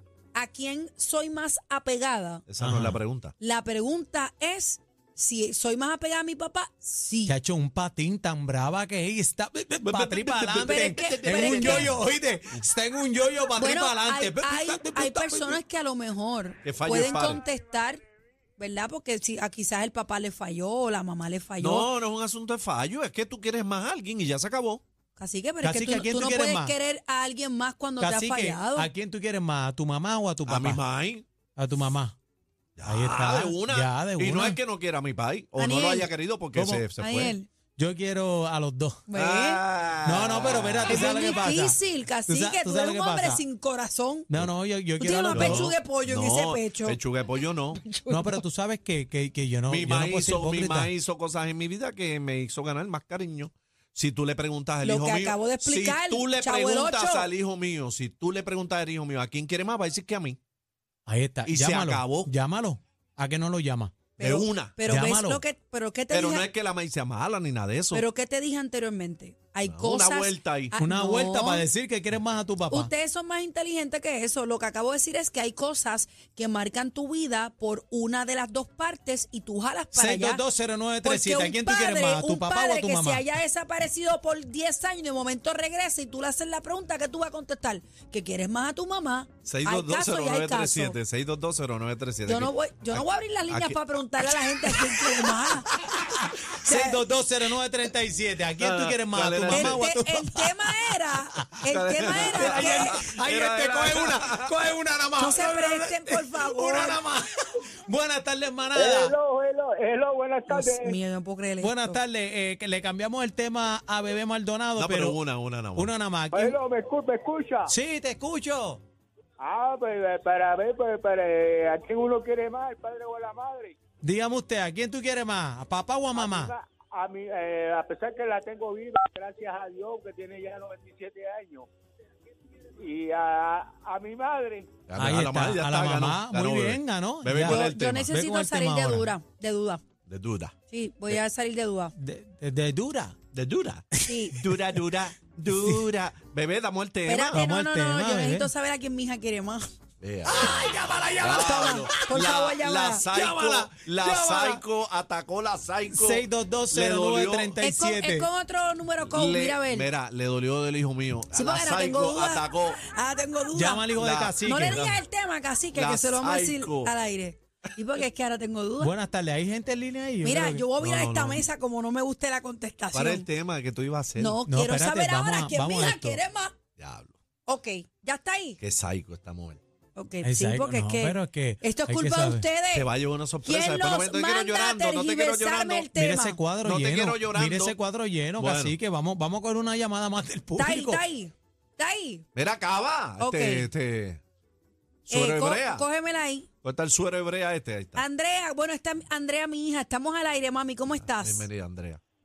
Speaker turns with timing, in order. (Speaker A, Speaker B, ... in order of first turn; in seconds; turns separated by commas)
Speaker A: 0.3-2.4, Speaker B: 2.5-3.3, Speaker C: 2.6-3.0, Speaker A: 3.4-7.3, Speaker C: 7.2-15.6, Speaker B: 9.8-12.0, Speaker A: 10.6-11.9, Speaker A: 13.6-18.0, Speaker B: 16.6-17.4, Speaker A: 18.6-21.9, Speaker B: 21.6-24.8, Speaker A: 25.1-28.9, Speaker C: 25.6-26.8, Speaker C: 28.0-30.8, Speaker B: 30.4-31.2, Speaker C: 31.6-32.1, Speaker B: 32.8-37.3, Speaker C: 32.8-34.6, Speaker A: 35.6-37.5, Speaker C: 37.8-39.1, Speaker A: 39.1-39.6, Speaker B: 39.1-41.4, Speaker C: 40.0-43.4, Speaker A: 40.9-44.3, Speaker C: 44.3-45.7, Speaker A: 45.0-47.0, Speaker B: 45.3-47.8, Speaker A: 47.8-48.4, Speaker C: 48.1-50.9, Speaker B: 49.7-60.4, Speaker A: 54.8-57.3, Speaker C: 61.1-63.9, Speaker B: 61.5-62.3, Speaker A: 64.2-66.5, Speaker B: 64.2-64.8, Speaker C: 64.8-65.4, Speaker B: 66.1-68.0, Speaker A: 67.9-71.7, Speaker B: 69.6-70.7, Speaker C: 70.8-72.9, Speaker A: 72.7-80.4, Speaker C: 79.9-83.3, Speaker A: 81.0-91.0, Speaker B: 89.5-95.2, Speaker A: 92.2-95.7, Speaker C: 96.0-107.3, Speaker A: 96.6-97.0, Speaker B: 98.6-99.8, Speaker A: 99.5-103.0, Speaker B: 101.7-104.5, Speaker A: 105.2-107.0, Speaker C: 107.8-109.1, Speaker D: 108.7-110.9, Speaker A: 110.5-112.0, Speaker C: 111.6-115.2, Speaker B: 114.8-115.9, Speaker C: 115.7-116.5, Speaker D: 116.3-117.6, Speaker C: 117.7-118.8, Speaker D: 119.4-123.7, Speaker C: 124.0-126.5, Speaker D: 126.2-131.7, Speaker D: 132.8-134.7, Speaker B: 134.9-138.1, Speaker C: 134.9-139.1, Speaker A: 137.4-139.8, Speaker B: 140.1-140.5, Speaker A: 140.7-141.9, Speaker C: 141.9-143.2, Speaker B: 143.3-147.4, Speaker C: 143.9-144.8, Speaker A: 144.1-144.3, Speaker C: 145.5-145.8, Speaker A: 147.1-149.7, Speaker C: 147.3-148.5, Speaker B: 150.0-150.7, Speaker C: 150.2-152.3, Speaker B: 151.2-157.6, Speaker A: 151.3-153.1, Speaker C: 153.1-154.6, Speaker C: 155.9-158.3, Speaker A: 157.6-159.9, Speaker B: 159.1-162.8, Speaker A: 161.3-168.9, Speaker C: 163.5-164.9, Speaker B: 163.9-165.0, Speaker B: 165.7-166.9, Speaker C: 168.8-170.7, Speaker A: 170.2-173.3, Speaker B: 170.8-171.5, Speaker B: 172.9-174.4, Speaker A: 174.2-176.5, Speaker C: 174.4-176.2, Speaker B: 176.8-177.2, Speaker A: 177.4-178.6, Speaker B: 178.6-179.6, Speaker A: 179.9-182.9, Speaker C: 180.2-182.4, Speaker B: 182.7-185.9, Speaker A: 183.4-186.4, Speaker C: 185.9-191.0, Speaker B: 186.6-187.8, Speaker B: 188.4-188.8, Speaker A: 190.6-192.2, Speaker B: 192.3-194.2, Speaker A: 193.2-193.7, Speaker A: 195.1-196.5, Speaker B: 195.1-195.8, Speaker B: 196.6-198.0, Speaker A: 197.9-201.5, Speaker B: 201.2-202.0